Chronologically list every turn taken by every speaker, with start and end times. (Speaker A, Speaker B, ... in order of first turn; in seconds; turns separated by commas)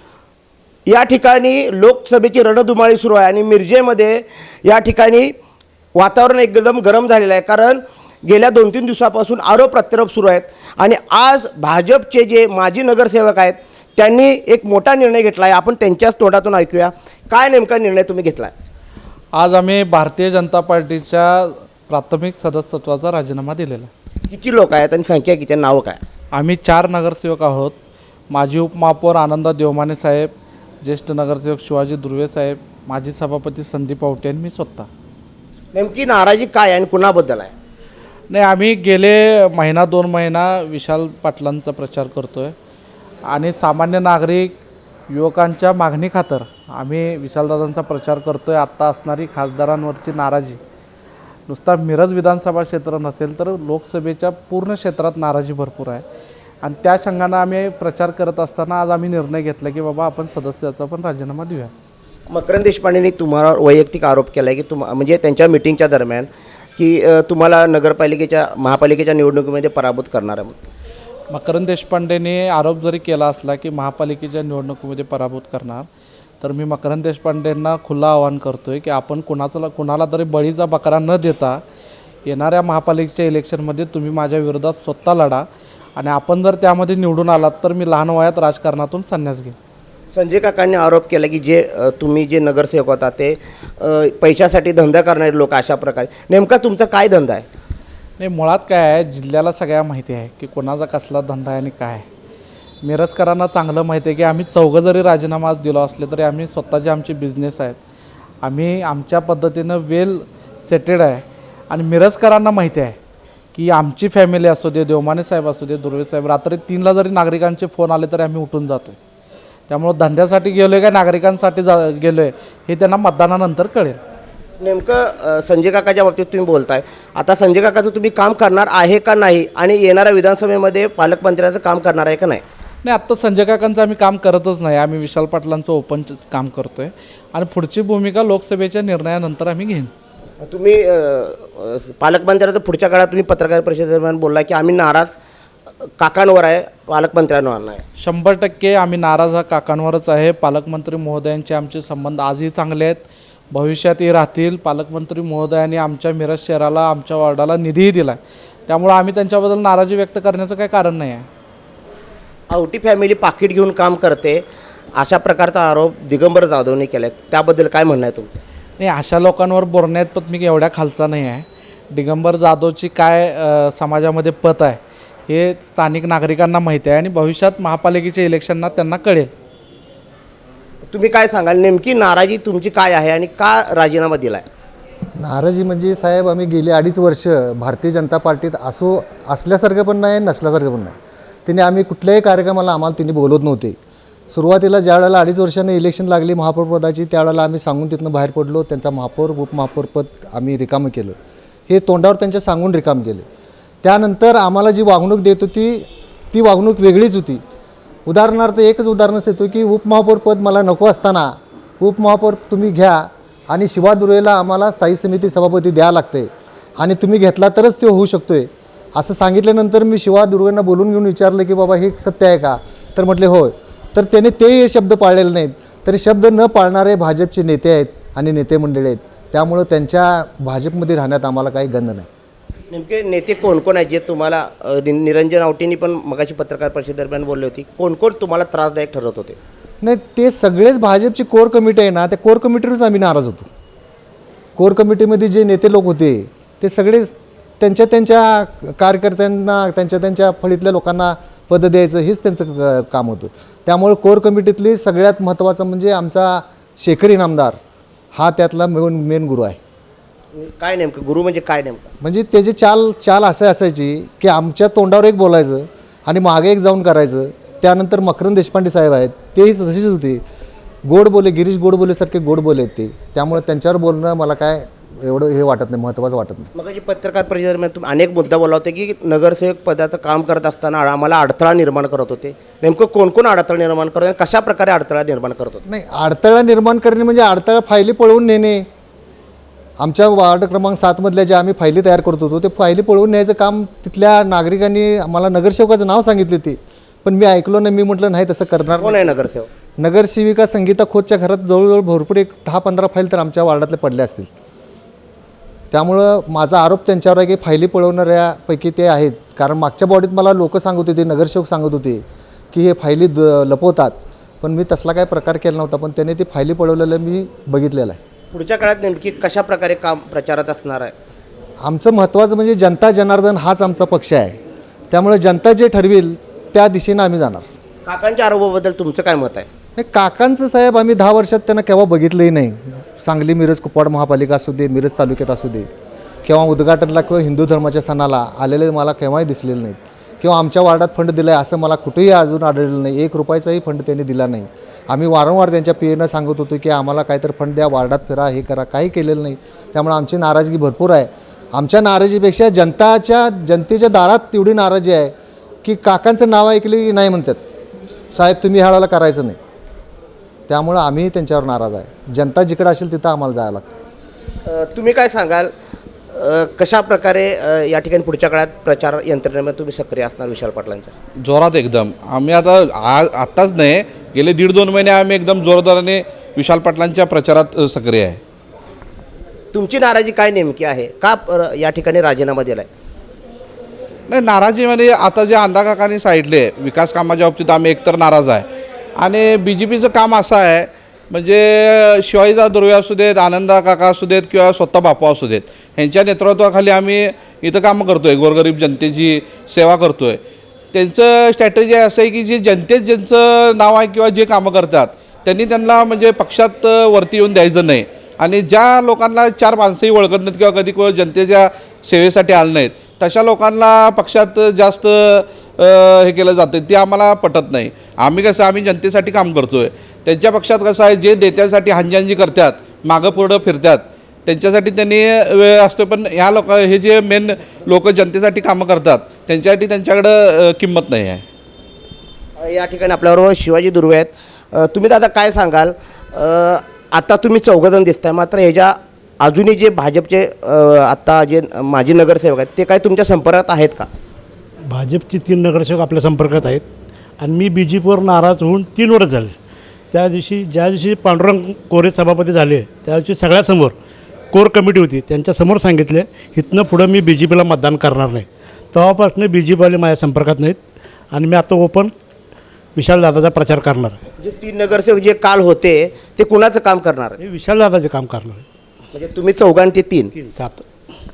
Speaker A: 0.9-5.3, Speaker A: 6.0-18.5, Speaker B: 19.4-23.9, Speaker A: 24.3-26.0, Speaker B: 26.3-27.7, Speaker B: 28.3-30.3, Speaker B: 30.8-34.9, Speaker A: 35.7-37.5, Speaker B: 38.3-42.5, Speaker B: 43.3-44.5, Speaker B: 45.1-50.6, Speaker B: 51.5-56.0, Speaker B: 56.6-61.7, Speaker A: 62.3-70.5, Speaker B: 71.3-75.9, Speaker B: 76.4-81.6, Speaker B: 82.2-85.4, Speaker B: 86.0-89.5, Speaker A: 90.1-97.4, Speaker B: 98.2-102.0, Speaker B: 102.8-107.8, Speaker B: 108.4-113.0, Speaker B: 113.5-119.0, Speaker B: 119.7-124.0, Speaker A: 124.6-132.4, Speaker B: 132.8-139.9, Speaker A: 140.4-145.1, Speaker A: 146.0-147.8, Speaker B: 148.0-161.3, Speaker A: 162.5-164.4, Speaker A: 164.9-168.4, Speaker B: 168.8-179.3, Speaker A: 180.9-184.4, Speaker C: 185.2-193.8, Speaker C: 194.3-201.2, Speaker C: 201.7-203.2, Speaker C: 203.8-207.4, Speaker C: 208.1-232.1, Speaker A: 232.7-239.4, Speaker C: 239.8-243.5, Speaker C: 244.6-257.6, Speaker C: 258.1-259.6, Speaker A: 260.3-261.9, Speaker C: 262.0-270.2, Speaker C: 270.8-276.5, Speaker A: 276.5-285.6, Speaker C: 285.6-288.7, Speaker C: 289.8-299.1, Speaker A: 298.8-299.5, Speaker C: 299.8-304.3, Speaker C: 305.7-318.0, Speaker A: 318.3-320.9, Speaker C: 321.6-324.4, Speaker C: 324.9-327.4, Speaker A: 327.9-329.5, Speaker C: 329.8-335.6, Speaker C: 336.2-355.1, Speaker C: 355.6-357.4, Speaker C: 358.1-359.4, Speaker C: 360.5-363.8, Speaker A: 364.4-365.5, Speaker A: 366.1-370.9, Speaker D: 371.2-378.2, Speaker A: 379.5-382.7, Speaker D: 384.1-388.4, Speaker D: 389.0-400.2, Speaker D: 400.7-431.2, Speaker A: 432.4-443.9, Speaker E: 444.7-446.6, Speaker E: 447.2-449.4, Speaker E: 449.9-453.8, Speaker E: 454.3-460.6, Speaker E: 461.1-461.9, Speaker E: 462.8-464.0, Speaker A: 464.2-467.2, Speaker E: 467.2-468.4, Speaker A: 468.9-470.1, Speaker E: 470.1-470.6